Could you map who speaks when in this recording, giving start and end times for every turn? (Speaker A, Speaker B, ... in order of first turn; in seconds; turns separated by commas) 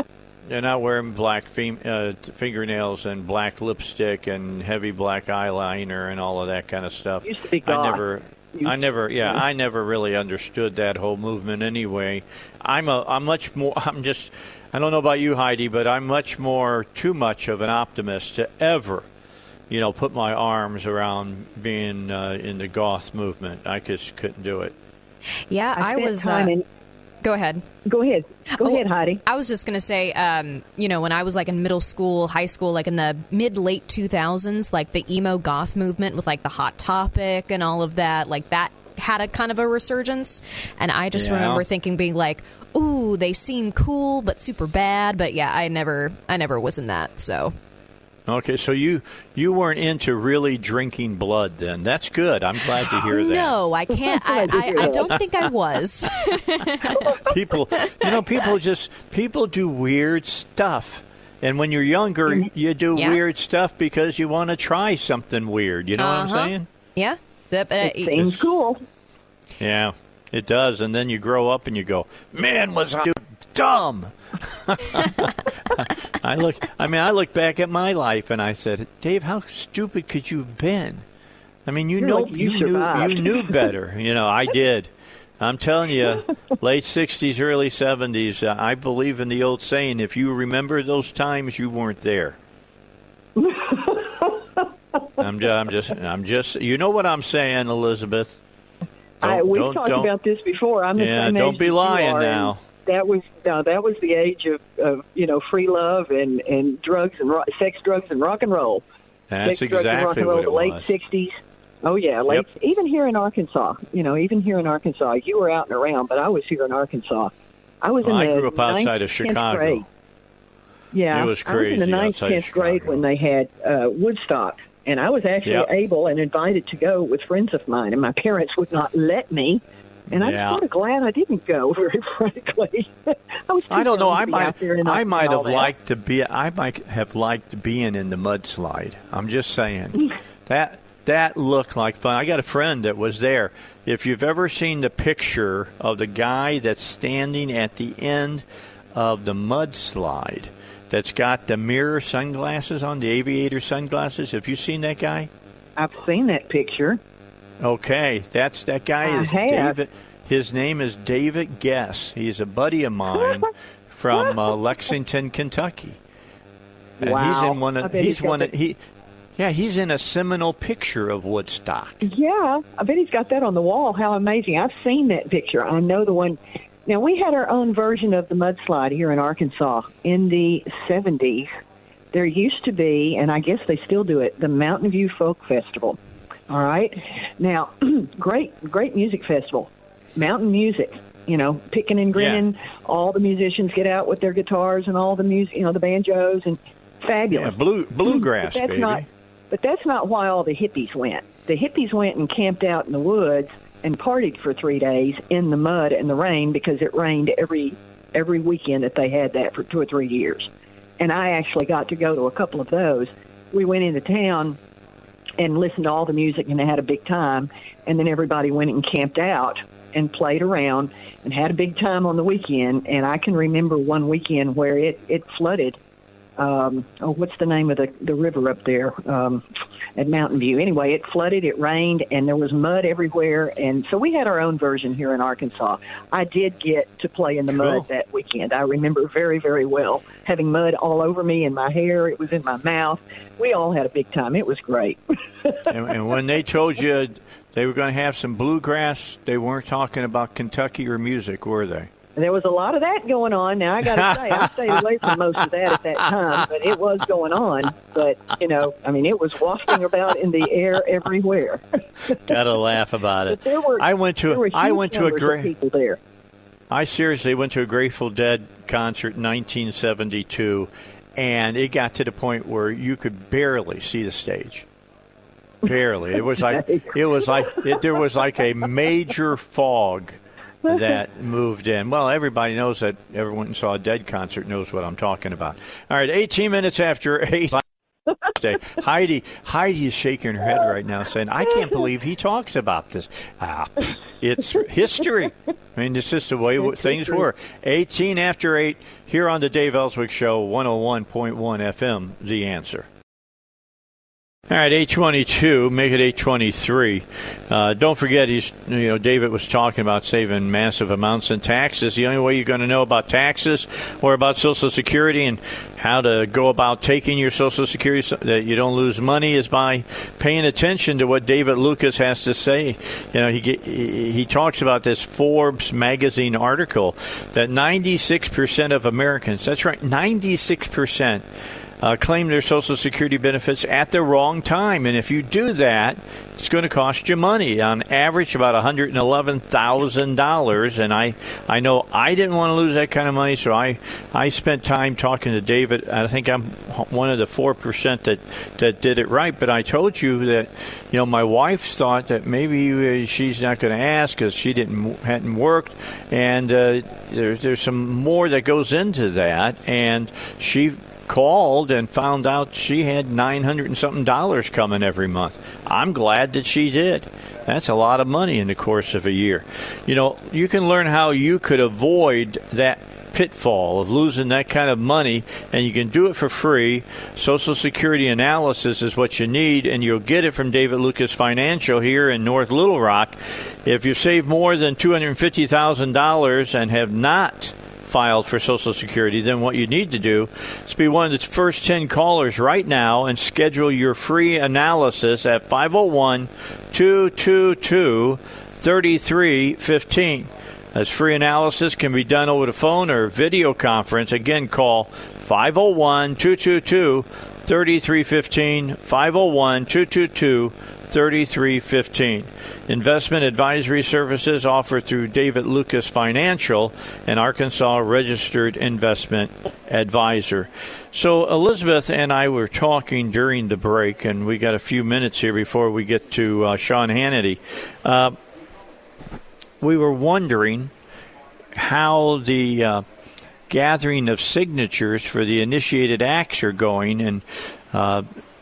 Speaker A: 0.5-19.1, Speaker B: 7.2-8.0, Speaker B: 8.5-9.4, Speaker A: 19.7-24.7, Speaker C: 25.5-26.5, Speaker B: 25.8-26.6, Speaker C: 27.2-27.6, Speaker B: 27.9-29.2, Speaker C: 28.5-47.5, Speaker A: 41.1-41.6, Speaker A: 48.3-53.6, Speaker C: 52.9-57.2, Speaker B: 54.1-55.1, Speaker A: 54.5-55.5, Speaker A: 57.2-66.7, Speaker C: 62.9-63.2, Speaker C: 66.0-68.2, Speaker B: 67.8-68.8, Speaker A: 68.1-68.5, Speaker A: 69.6-81.0, Speaker A: 81.7-92.4, Speaker B: 82.0-83.6, Speaker B: 93.4-94.3, Speaker A: 95.2-98.4, Speaker B: 99.2-108.8, Speaker A: 99.2-100.1, Speaker A: 101.0-102.6, Speaker A: 109.3-110.9, Speaker B: 109.4-119.8, Speaker A: 118.0-119.8, Speaker B: 120.9-135.7, Speaker A: 121.1-123.1, Speaker A: 125.4-125.7, Speaker A: 130.1-130.6, Speaker A: 133.7-155.3, Speaker B: 155.8-157.0, Speaker A: 157.6-166.0, Speaker B: 159.0-159.8, Speaker B: 167.0-168.5, Speaker A: 167.0-168.8, Speaker A: 169.4-172.0, Speaker B: 172.0-181.5, Speaker B: 182.1-186.0, Speaker B: 186.5-210.5, Speaker A: 192.2-192.5, Speaker A: 197.3-199.1, Speaker B: 211.0-214.6, Speaker B: 215.4-225.8, Speaker B: 226.4-229.4, Speaker B: 230.0-245.7, Speaker A: 237.5-237.9, Speaker A: 245.7-251.9, Speaker B: 252.2-262.3, Speaker A: 253.8-255.5, Speaker A: 262.1-265.5, Speaker B: 263.3-266.0, Speaker A: 266.7-274.7, Speaker A: 275.6-287.6, Speaker B: 276.4-277.8, Speaker A: 288.4-302.9, Speaker B: 296.6-297.2, Speaker A: 304.5-331.2, Speaker A: 331.8-428.2, Speaker A: 429.6-430.7, Speaker A: 431.5-432.8, Speaker A: 433.5-438.1